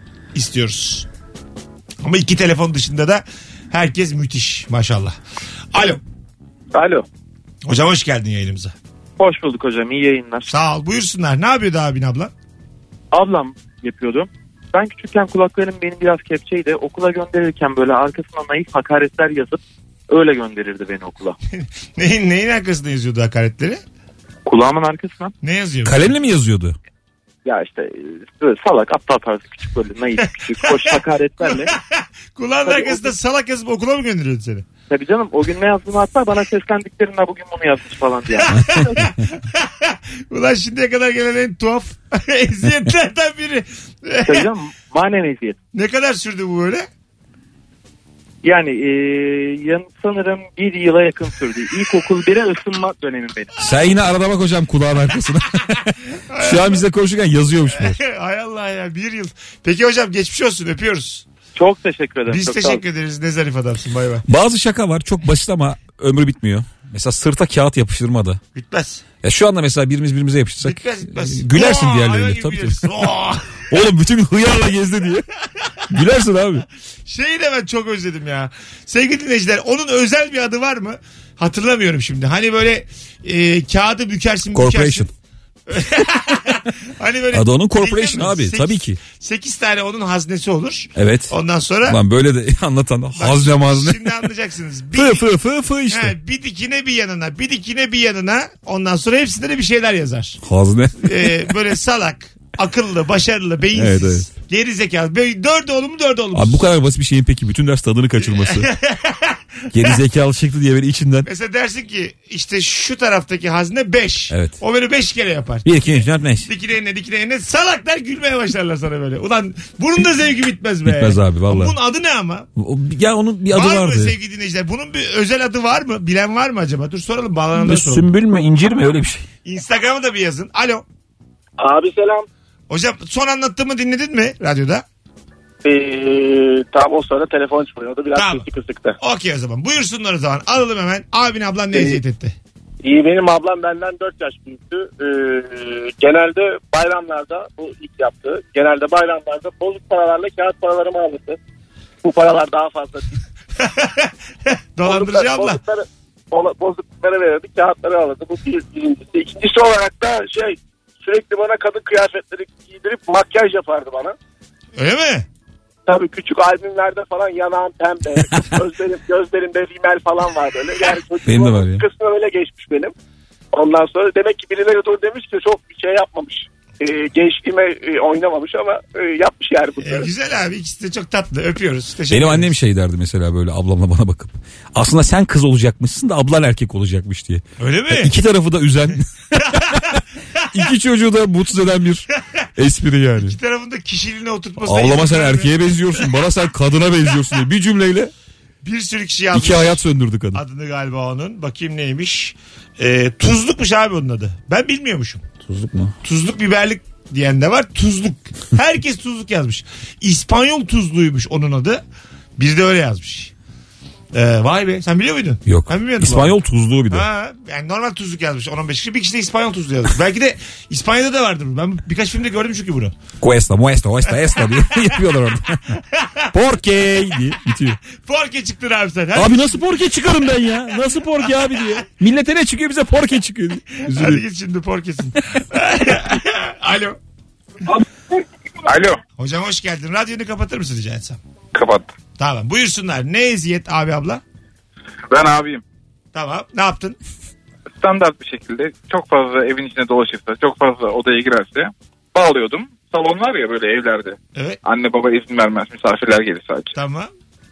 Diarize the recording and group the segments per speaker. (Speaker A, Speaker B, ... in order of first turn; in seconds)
Speaker A: 0.3-1.1, 2.0-5.1, 5.7-6.0, 7.6-8.7, 10.5-12.3, 21.5-23.8, 25.4-26.1, 30.2-34.6, 38.4-44.5, 45.7-46.9, 56.3-56.8, 57.7-61.2, 62.3-64.2, 68.5-69.0, 70.6-73.6, 77.0-85.1, 85.7-92.0, 93.2-95.2, 95.9-100.4, 101.0-106.6, 108.2-110.0, 111.2-122.5, 123.5-128.1, 129.4-130.8, 132.7-134.8, 138.2-138.4, 139.0-142.3, 153.6-154.1, 154.8-155.6, 164.8-165.2, 179.8-182.5, 187.6-188.2, 189.4-190.4, 193.2-195.6, 198.6-199.8, 200.3-205.2, 206.0-211.8, 212.4-213.3, 214.1-216.4, 216.9-222.9, 225.8-226.3, 228.1-229.6, 230.9-231.8, 233.9-237.0, 239.2-241.2, 242.2-244.2, 246.1-247.0, 254.3-254.6, 256.7-257.1
Speaker B: 6.7-7.0, 9.2-10.5, 13.1-21.4, 24.4-25.3, 27.4-31.7, 32.6-33.1, 34.9-38.5, 44.2-45.6, 48.4-53.5, 61.5-62.8
Speaker C: 25.8-26.8, 53.6-58.0, 64.3-68.4, 69.2-73.1, 73.7-75.2, 75.9-76.6, 84.5-85.1, 87.3-89.0, 91.0-91.3, 91.8-94.1, 94.9-96.1, 100.4-101.5, 103.7-104.3, 106.3-108.7, 109.7-111.3, 114.3-114.6, 115.6-116.5, 120.8-121.8, 122.6-124.2, 127.5-129.3, 171.2-171.8, 182.1-190.0, 190.5-192.1, 192.6-193.3, 194.6-198.1, 199.3-200.4, 205.4-205.9, 215.4-217.1, 223.2-225.8, 226.3-227.8, 229.1-234.2
Speaker D: 131.6-132.2, 135.6-138.9, 141.7-142.0, 142.8-151.4, 152.0-153.2, 154.8-164.1, 165.8-172.9, 173.5-180.1
Speaker E: 238.6-239.0, 241.5-241.9, 245.1-245.6, 247.8-256.7